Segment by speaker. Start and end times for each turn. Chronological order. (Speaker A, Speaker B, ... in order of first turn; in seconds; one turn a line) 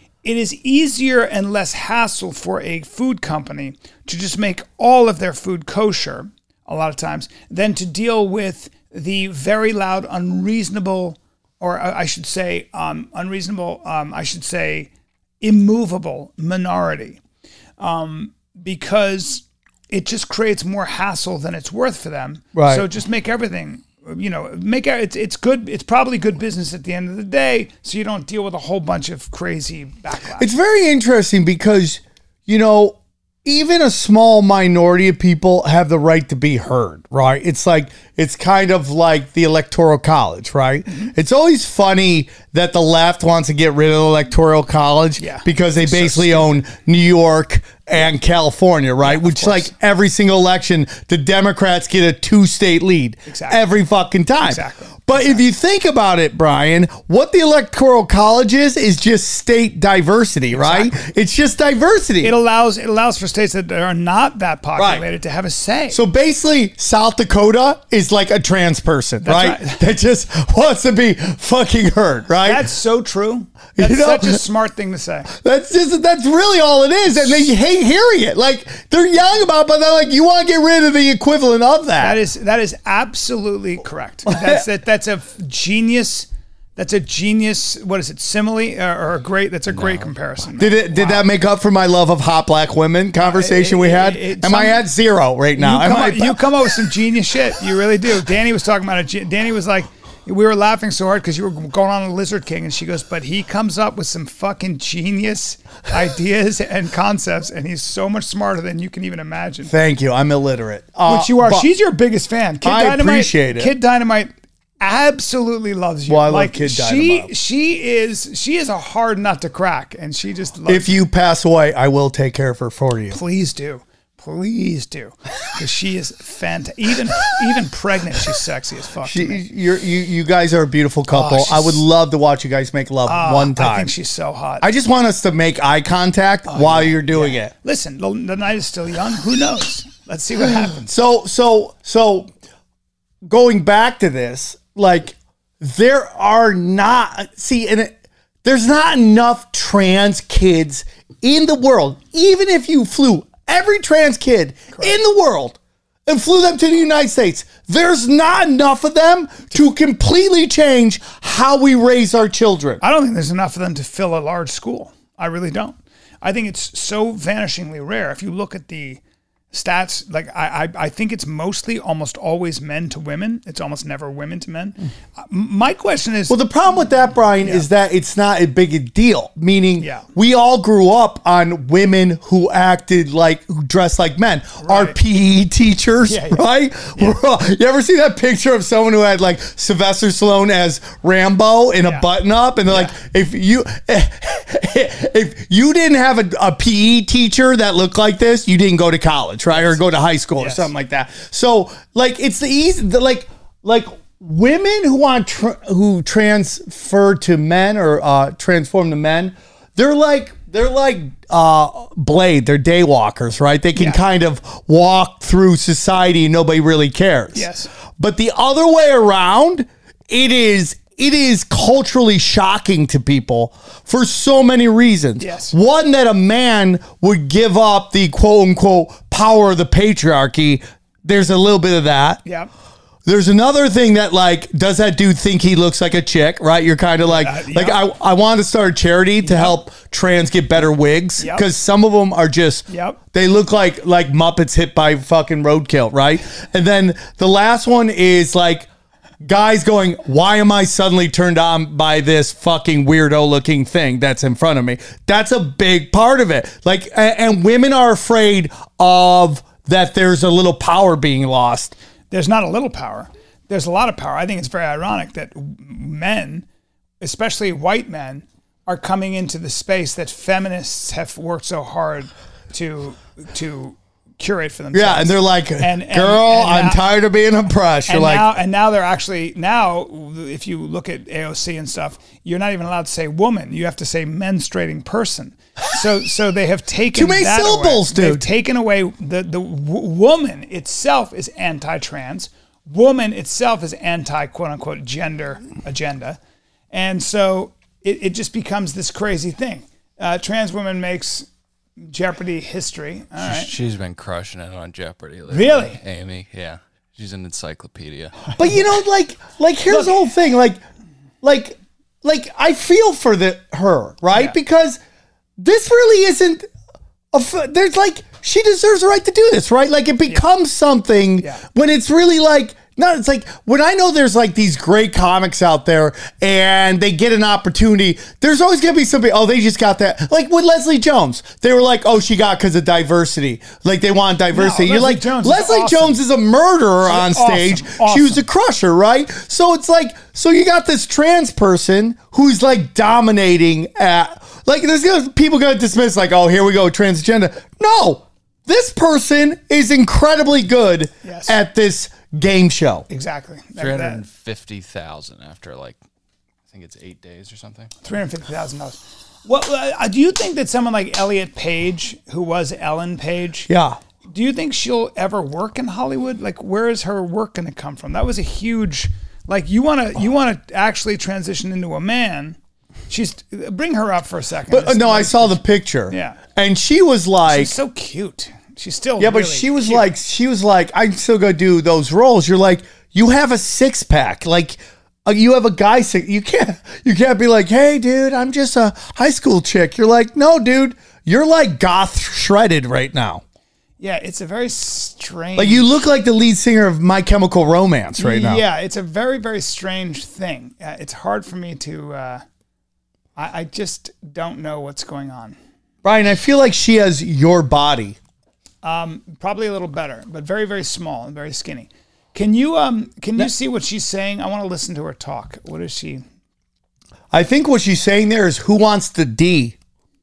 Speaker A: 0.2-14.9
Speaker A: 15.4-17.2
Speaker A: 17.8-30.5
Speaker B: 22.5-22.9
Speaker B: 30.4-62.3
Speaker A: 40.9-41.1
Speaker A: 45.2-46.6
Speaker A: 49.0-49.7
Speaker A: 53.3-53.6
Speaker A: 54.4-55.4
Speaker A: 60.5-61.0
Speaker A: 62.2-66.0
Speaker B: 64.8-65.0
Speaker B: 65.9-72.6
Speaker A: 69.2-69.8
Speaker A: 72.4-75.3
Speaker B: 73.8-74.4
Speaker B: 75.3-82.2
Speaker A: 77.1-77.5
Speaker A: 82.0-91.2
Speaker B: 84.2-84.6
Speaker C: 89.7-90.1
Speaker B: 90.6-96.4
Speaker A: 93.2-94.8
Speaker A: 95.5-109.7
Speaker B: 109.7-111.7
Speaker A: 111.0-121.0
Speaker B: 112.6-113.7
Speaker B: 116.1-117.3
Speaker B: 120.7-123.2
Speaker A: 123.1-129.4
Speaker B: 129.0-133.9
Speaker A: 131.1-131.8
Speaker A: 133.0-134.7
Speaker B: 134.6-137.5
Speaker A: 136.5-140.9
Speaker B: 140.8-142.3
Speaker B: 143.2-162.8
Speaker A: 162.8-169.0
Speaker A: 169.5-176.4
Speaker B: 176.3-232.2
Speaker A: 177.4-177.7
Speaker A: 179.8-180.1
Speaker A: 184.6-185.0
Speaker A: 186.1-186.4
Speaker A: 192.7-193.0
Speaker A: 199.5-199.8
Speaker A: 200.4-200.7
Speaker A: 213.7-214.0
Speaker A: 217.3-217.7
Speaker A: 225.2-225.6
Speaker A: 232.2-232.5
Speaker B: 233.1-248.7
Speaker A: 237.0-237.8
Speaker A: 239.2-239.6
Speaker A: 241.2-241.4
Speaker A: 242.7-243.0
Speaker B: 249.2-261.7
Speaker A: 262.1-266.4
Speaker A: 267.0-276.8
Speaker B: 274.7-278.3
Speaker A: 277.9-296.2
Speaker B: 286.9-288.2
Speaker A: 296.7-303.5
Speaker C: 303.2-308.3
Speaker A: 305.3-305.8
Speaker B: 308.4-310.6
Speaker A: 309.7-310.0
Speaker B: 311.2-314.8
Speaker A: 314.1-314.4
Speaker B: 315.4-316.5
Speaker B: 317.1-352.9
Speaker A: 334.3-336.0
Speaker A: 336.8-338.2
Speaker A: 351.0-351.4
Speaker A: 352.9-354.0
Speaker C: 353.6-355.8
Speaker C: 356.5-357.7
Speaker A: 357.8-363.5
Speaker B: 363.5-363.8
Speaker A: 364.1-372.4
Speaker A: 372.9-376.2
Speaker B: 374.5-377.5
Speaker A: 377.2-379.9
Speaker B: 379.0-393.2
Speaker A: 393.8-395.7
Speaker B: 395.4-398.4
Speaker A: 398.0-402.2
Speaker A: 403.1-405.4
Speaker B: 405.8-408.0
Speaker A: 408.6-416.0
Speaker B: 417.1-419.5